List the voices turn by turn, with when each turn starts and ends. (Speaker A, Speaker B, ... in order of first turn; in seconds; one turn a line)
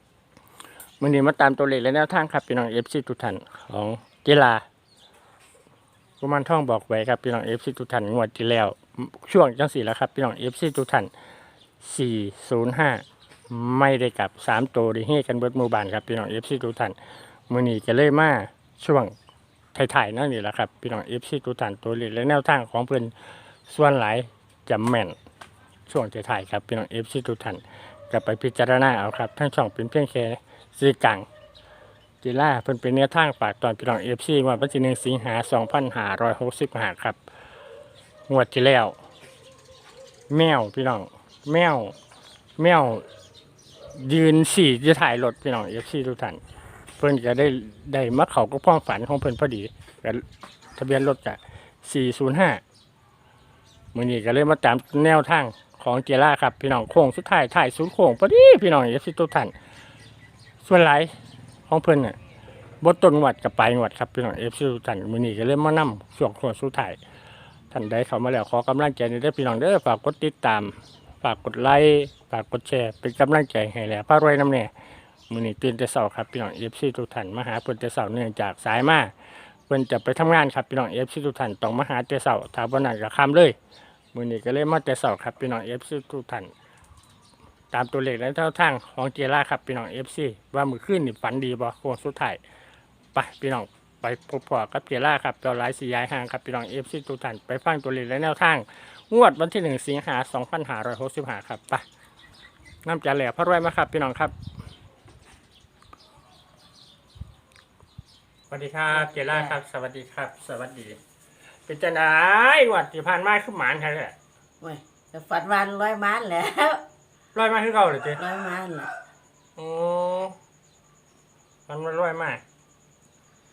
Speaker A: 1.0-4.6
Speaker A: 6.2-11.1
Speaker A: 11.8-17.0
Speaker A: 17.5-19.1
Speaker A: 19.8-23.1
Speaker A: 23.7-25.2
Speaker A: 25.9-31.3
Speaker A: 32.2-37.2
Speaker A: 38.3-39.0
Speaker A: 40.3-42.0
Speaker A: 42.6-43.1
Speaker A: 43.9-46.4
Speaker A: 47.0-50.2
Speaker A: 50.8-52.6
Speaker A: 53.9-59.5
Speaker A: 60.6-61.1
Speaker A: 61.7-62.2
Speaker A: 62.8-67.0
Speaker A: 67.7-74.7
Speaker A: 75.3-79.1
Speaker A: 79.7-83.6
Speaker A: 84.1-86.5
Speaker A: 87.7-92.4
Speaker A: 93.1-101.8
Speaker A: 102.8-104.3
Speaker A: 108.5-111.0
Speaker B: 108.9-109.6
Speaker A: 111.7-114.2
Speaker B: 114.6-116.8
Speaker A: 117.3-118.2
Speaker B: 118.2-118.9
Speaker A: 119.6-120.4
Speaker A: 121.7-122.4